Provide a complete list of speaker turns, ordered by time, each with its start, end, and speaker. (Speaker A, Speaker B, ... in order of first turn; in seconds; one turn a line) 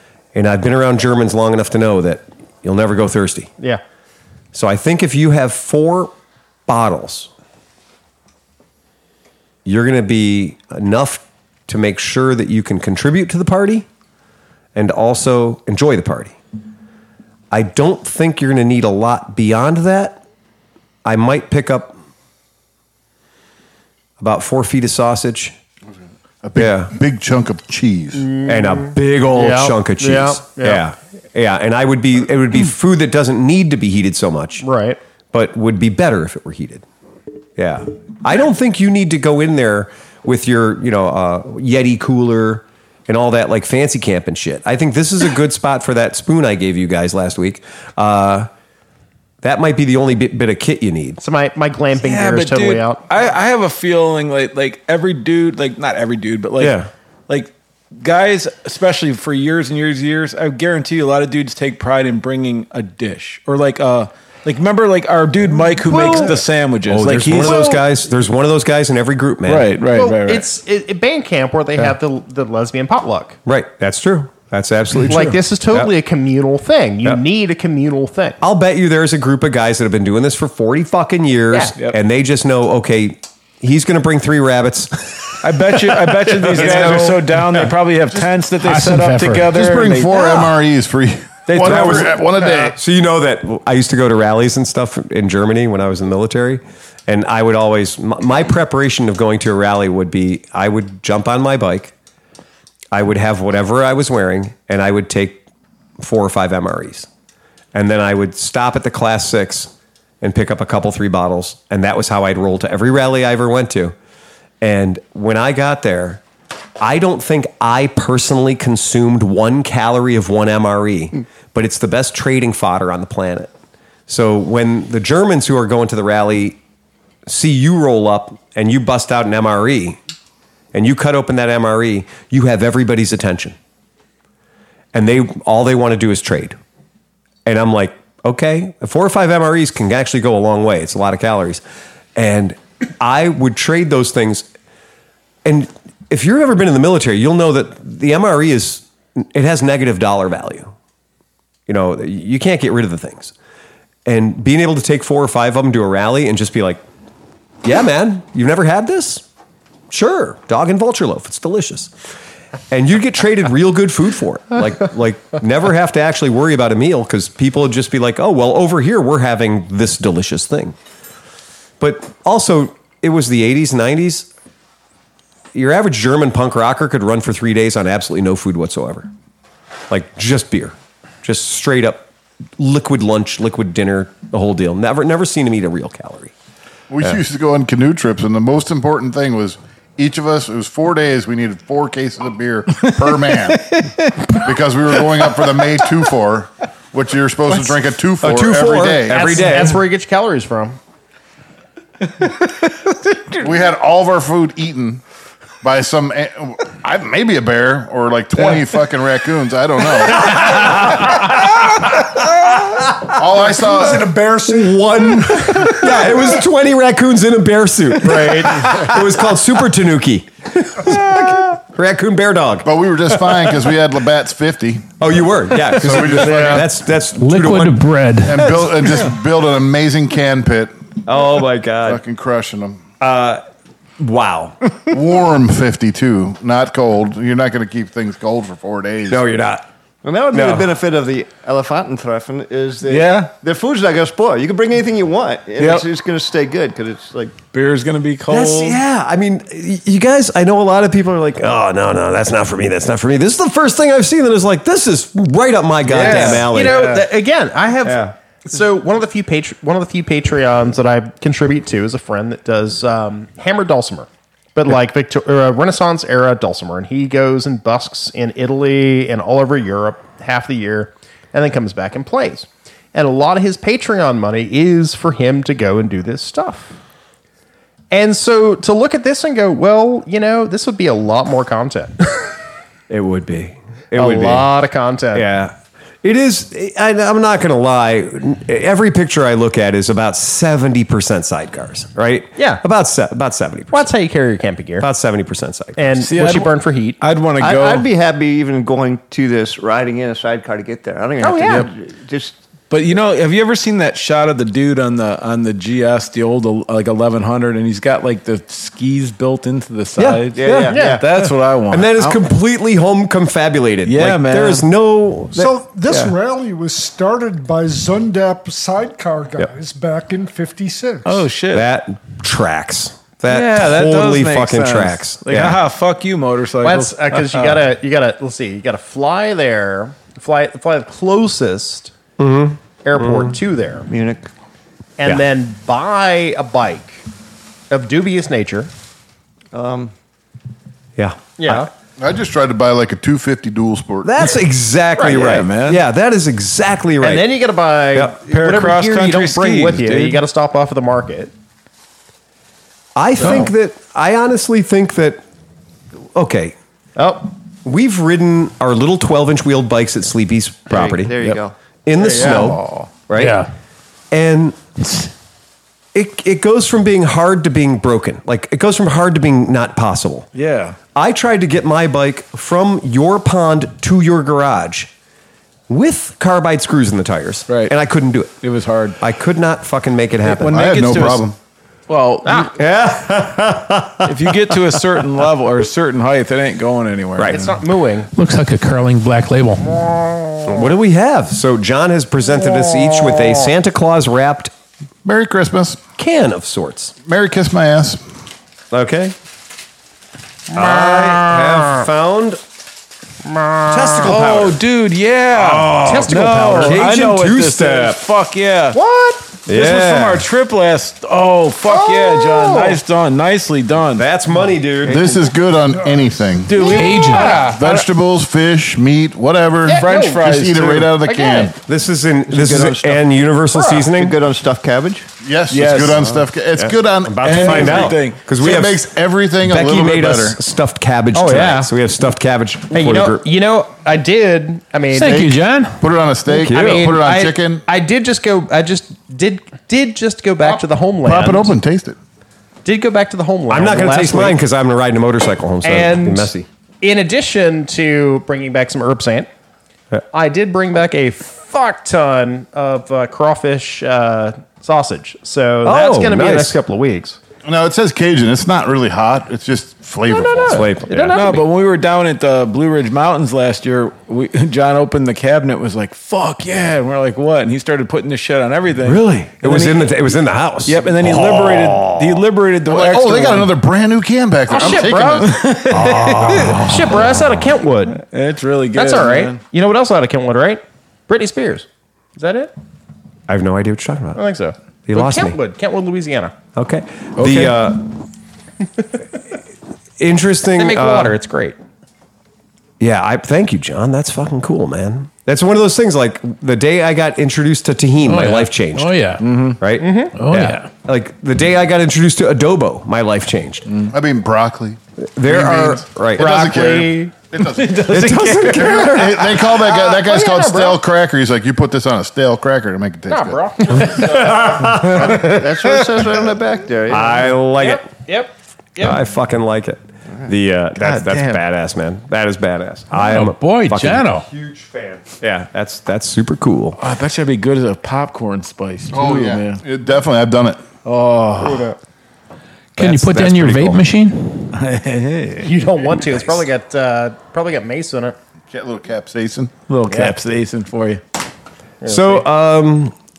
Speaker A: 0.3-3.5
Speaker A: 4.5-6.1
Speaker A: 6.7-7.3
Speaker A: 9.6-13.9
Speaker A: 14.7-16.4
Speaker A: 17.5-20.2
Speaker A: 21.0-22.0
Speaker A: 24.2-25.6
Speaker B: 26.4-28.4
Speaker A: 26.5-26.9
Speaker C: 28.2-30.8
Speaker A: 28.4-34.6
Speaker C: 34.6-35.0
Speaker A: 35.3-36.8
Speaker A: 37.6-48.5
Speaker A: 49.4-51.2
Speaker C: 51.2-53.0
Speaker D: 52.0-56.8
Speaker A: 56.6-56.9
Speaker D: 57.3-67.7
Speaker A: 65.9-69.7
Speaker C: 65.9-66.3
Speaker C: 67.5-67.8
Speaker D: 69.5-70.5
Speaker C: 69.9-73.4
Speaker A: 73.5-75.9
Speaker C: 75.1-78.4
Speaker A: 78.4-85.2
Speaker D: 85.4-90.5
Speaker A: 86.4-87.7
Speaker B: 86.6-87.2
Speaker E: 88.6-89.5
Speaker B: 89.5-92.8
Speaker D: 91.5-92.1
Speaker A: 91.5-101.9
Speaker A: 102.9-105.4
Speaker A: 106.0-107.1
Speaker A: 107.7-113.9
Speaker A: 114.6-116.2
Speaker A: 116.8-123.5
Speaker A: 124.1-126.6
Speaker A: 127.2-130.0
Speaker A: 130.7-133.6
Speaker A: 134.9-136.6
Speaker A: 137.4-141.6
Speaker A: 142.1-144.5
Speaker A: 145.4-150.7
Speaker A: 151.7-153.3
Speaker A: 154.1-156.8
Speaker A: 157.6-159.2
Speaker A: 159.9-161.9
Speaker A: 162.7-170.8
Speaker A: 171.8-174.3
Speaker A: 175.5-179.1
Speaker A: 179.9-182.1
Speaker A: 182.6-186.3
Speaker B: 186.9-193.7
Speaker D: 193.5-194.3
Speaker B: 194.4-199.4
Speaker A: 198.2-199.8
Speaker C: 199.1-200.8
Speaker B: 203.4-205.0
Speaker B: 205.6-210.9
Speaker A: 210.3-211.8
Speaker B: 213.1-214.4
Speaker F: 213.6-216.0
Speaker A: 214.5-223.5
Speaker C: 218.0-218.5
Speaker B: 222.6-224.9
Speaker A: 225.0-227.8
Speaker B: 225.8-226.7
Speaker C: 226.3-226.6
Speaker E: 227.2-228.6
Speaker B: 228.2-230.7
Speaker A: 231.0-232.0
Speaker B: 231.8-232.8
Speaker A: 233.0-233.4
Speaker A: 234.0-234.6
Speaker B: 234.9-239.2
Speaker A: 239.1-239.6
Speaker G: 240.0-247.4
Speaker A: 240.3-240.8
Speaker D: 242.9-243.3
Speaker D: 245.6-245.8
Speaker D: 247.5-248.8
Speaker A: 248.3-257.0
Speaker D: 255.8-257.0
Speaker C: 256.0-276.8
Speaker A: 257.8-258.1
Speaker C: 277.9-282.0
Speaker A: 282.9-284.5
Speaker C: 283.9-285.2
Speaker A: 285.1-293.9
Speaker C: 292.4-292.6
Speaker C: 293.7-294.9
Speaker A: 294.8-295.8
Speaker C: 295.8-297.0
Speaker D: 296.0-297.9
Speaker G: 297.4-302.3
Speaker C: 301.2-301.7
Speaker D: 302.7-312.2
Speaker A: 310.0-310.8
Speaker G: 310.4-311.0
Speaker C: 310.7-311.0
Speaker A: 311.7-316.1
Speaker D: 313.8-314.6
Speaker F: 315.3-321.3
Speaker D: 321.0-321.7
Speaker A: 321.5-325.6
Speaker D: 323.3-327.6
Speaker C: 326.6-331.9
Speaker A: 332.2-333.3
Speaker C: 332.8-333.9
Speaker G: 333.9-334.3
Speaker C: 335.0-337.0
Speaker C: 337.7-338.7
Speaker G: 339.5-339.9
Speaker A: 341.0-341.7
Speaker C: 341.4-341.7
Speaker B: 342.0-344.3
Speaker A: 344.0-347.3
Speaker C: 345.0-345.3
Speaker D: 345.0-345.8
Speaker C: 347.0-351.3
Speaker D: 348.3-350.2
Speaker A: 352.9-355.2
Speaker A: 356.1-356.6
Speaker C: 356.9-357.3
Speaker A: 357.6-361.1
Speaker G: 360.7-361.5
Speaker A: 361.9-363.4
Speaker D: 361.9-362.9
Speaker C: 362.0-362.4
Speaker E: 363.1-363.5
Speaker A: 364.1-364.6
Speaker A: 365.9-370.3
Speaker D: 370.3-370.8
Speaker A: 370.9-374.9
Speaker A: 375.7-378.3
Speaker D: 377.5-377.7
Speaker D: 378.4-379.0
Speaker A: 379.0-380.6
Speaker D: 380.2-381.3
Speaker B: 380.5-381.4
Speaker D: 381.9-382.5
Speaker C: 382.2-382.5
Speaker A: 382.5-384.8
Speaker D: 384.1-387.4
Speaker A: 387.1-387.4
Speaker C: 387.3-388.1
Speaker E: 388.1-389.7
Speaker C: 389.6-390.6
Speaker A: 390.4-394.5
Speaker B: 395.0-395.8
Speaker A: 396.0-396.9
Speaker B: 397.1-398.0
Speaker A: 398.7-399.1
Speaker C: 400.5-401.8
Speaker A: 400.5-402.4
Speaker C: 403.2-404.1
Speaker A: 403.7-404.6
Speaker D: 404.0-408.8
Speaker A: 405.3-408.0
Speaker C: 405.8-406.8
Speaker C: 408.7-409.2
Speaker A: 409.5-410.2
Speaker D: 409.5-414.1
Speaker C: 411.7-412.8
Speaker A: 413.9-415.3
Speaker B: 414.8-416.6
Speaker D: 416.5-417.8
Speaker C: 416.6-417.6
Speaker E: 416.6-417.5
Speaker B: 417.4-421.6
Speaker C: 419.6-420.2
Speaker D: 419.8-420.9
Speaker C: 421.0-421.5
Speaker A: 421.6-424.2
Speaker G: 422.3-423.1
Speaker C: 423.5-423.8
Speaker G: 423.8-425.1
Speaker B: 425.2-430.4
Speaker D: 425.5-426.1
Speaker G: 426.0-426.2
Speaker A: 426.6-428.9
Speaker D: 427.2-428.2
Speaker A: 429.4-433.2
Speaker C: 431.1-431.7
Speaker C: 432.7-435.2
Speaker E: 434.9-435.8
Speaker B: 435.8-437.6
Speaker A: 436.3-436.8
Speaker C: 436.4-441.5
Speaker B: 441.0-442.0
Speaker C: 442.6-444.4
Speaker A: 443.5-446.4
Speaker C: 445.6-449.3
Speaker C: 450.1-457.2
Speaker A: 455.6-456.6
Speaker B: 457.4-460.7
Speaker C: 460.1-461.4
Speaker A: 460.5-461.2
Speaker D: 461.1-469.9
Speaker A: 468.8-472.2
Speaker D: 470.6-473.5
Speaker B: 472.7-475.5
Speaker C: 474.5-478.0
Speaker D: 475.2-476.8
Speaker A: 475.7-477.4
Speaker D: 477.9-479.4
Speaker C: 478.7-482.5
Speaker A: 483.3-484.2
Speaker C: 484.1-486.3
Speaker A: 484.9-485.4
Speaker A: 486.5-488.0
Speaker D: 487.2-487.6
Speaker A: 490.0-491.2
Speaker C: 490.6-491.6
Speaker A: 492.8-498.9
Speaker E: 498.0-499.2
Speaker D: 499.2-499.6
Speaker A: 499.6-503.7
Speaker C: 499.8-500.1
Speaker E: 500.1-500.7
Speaker B: 503.9-513.4
Speaker A: 505.1-506.5
Speaker C: 506.2-507.1
Speaker D: 507.4-509.0
Speaker A: 507.9-509.5
Speaker C: 509.7-510.8
Speaker C: 513.1-514.4
Speaker A: 513.9-515.3
Speaker G: 515.0-517.3
Speaker A: 516.9-517.9
Speaker C: 517.6-519.0
Speaker A: 518.8-526.8
Speaker D: 520.8-521.4
Speaker E: 522.9-524.3
Speaker D: 526.8-529.6
Speaker B: 528.9-530.6
Speaker D: 530.8-531.7
Speaker C: 531.4-531.7
Speaker E: 532.8-534.5
Speaker A: 532.8-533.8
Speaker D: 534.5-535.5
Speaker C: 535.4-538.1
Speaker B: 538.5-539.5
Speaker D: 539.7-541.0
Speaker C: 539.9-540.1
Speaker C: 541.8-542.2
Speaker A: 541.8-542.9